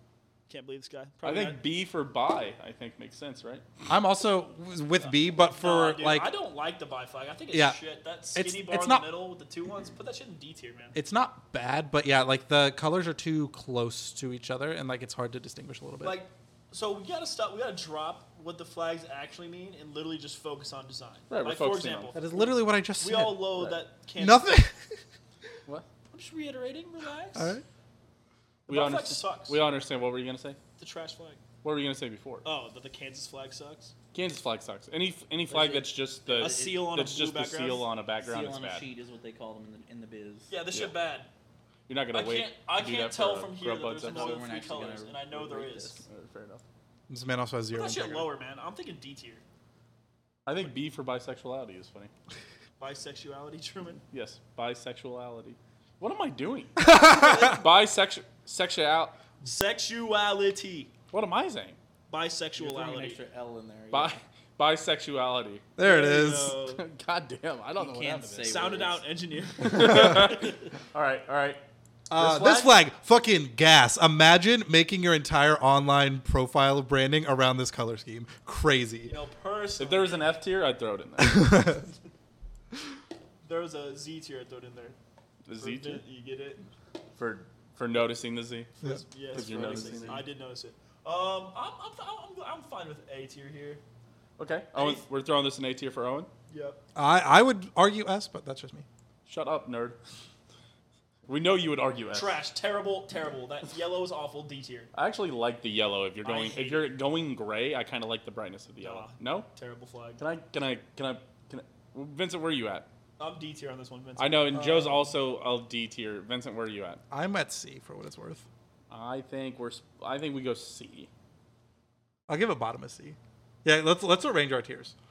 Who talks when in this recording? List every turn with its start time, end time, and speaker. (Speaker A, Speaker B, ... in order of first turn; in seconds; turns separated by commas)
Speaker A: 0.5-1.6, Speaker B: 1.2-3.6, Speaker C: 3.9-6.3, Speaker A: 5.0-10.9, Speaker C: 7.5-7.8, Speaker C: 8.3-9.1, Speaker C: 10.9-16.2, Speaker A: 16.0-24.6, Speaker B: 21.3-22.1, Speaker C: 22.1-25.0, Speaker A: 26.1-27.5, Speaker C: 27.3-27.6, Speaker B: 28.7-30.6, Speaker A: 28.7-29.6, Speaker A: 30.8-31.4, Speaker B: 31.6-32.4, Speaker A: 32.4-33.9, Speaker B: 34.1-38.8, Speaker D: 35.5-36.9, Speaker A: 36.4-37.9, Speaker D: 38.2-40.5, Speaker A: 40.5-41.3, Speaker B: 41.9-44.4, Speaker A: 42.1-46.0, Speaker D: 44.0-46.0, Speaker B: 46.0-46.6, Speaker C: 47.1-48.3, Speaker A: 47.7-49.4, Speaker B: 50.5-52.1, Speaker A: 52.8-54.0, Speaker B: 54.1-59.2, Speaker C: 56.8-57.5, Speaker A: 57.1-57.6, Speaker A: 59.4-60.9, Speaker B: 61.1-61.8, Speaker A: 62.1-63.2, Speaker D: 62.6-64.2, Speaker B: 63.9-65.7, Speaker C: 65.8-66.6, Speaker A: 65.8-66.8, Speaker B: 66.7-68.7, Speaker D: 67.8-69.0, Speaker A: 68.4-70.6, Speaker B: 69.6-71.6, Speaker C: 72.1-79.2, Speaker B: 72.1-72.8, Speaker A: 79.0-80.3, Speaker B: 79.8-81.7, Speaker C: 81.2-81.8, Speaker A: 83.4-85.0, Speaker B: 85.4-86.0, Speaker A: 85.6-86.7, Speaker B: 87.2-88.7, Speaker A: 88.8-93.8, Speaker B: 89.3-90.2, Speaker D: 89.4-90.1, Speaker B: 94.4-96.3, Speaker A: 94.8-95.0, Speaker A: 96.5-96.8, Speaker C: 96.9-98.8, Speaker B: 99.2-100.0, Speaker B: 101.3-102.4, Speaker A: 102.1-104.9, Speaker B: 104.9-109.5, Speaker A: 106.2-106.9, Speaker A: 108.8-110.2, Speaker B: 110.2-112.9, Speaker A: 113.2-114.7, Speaker B: 114.2-117.0, Speaker C: 114.5-115.0, Speaker C: 117.1-118.4, Speaker B: 118.9-121.1, Speaker C: 122.3-124.9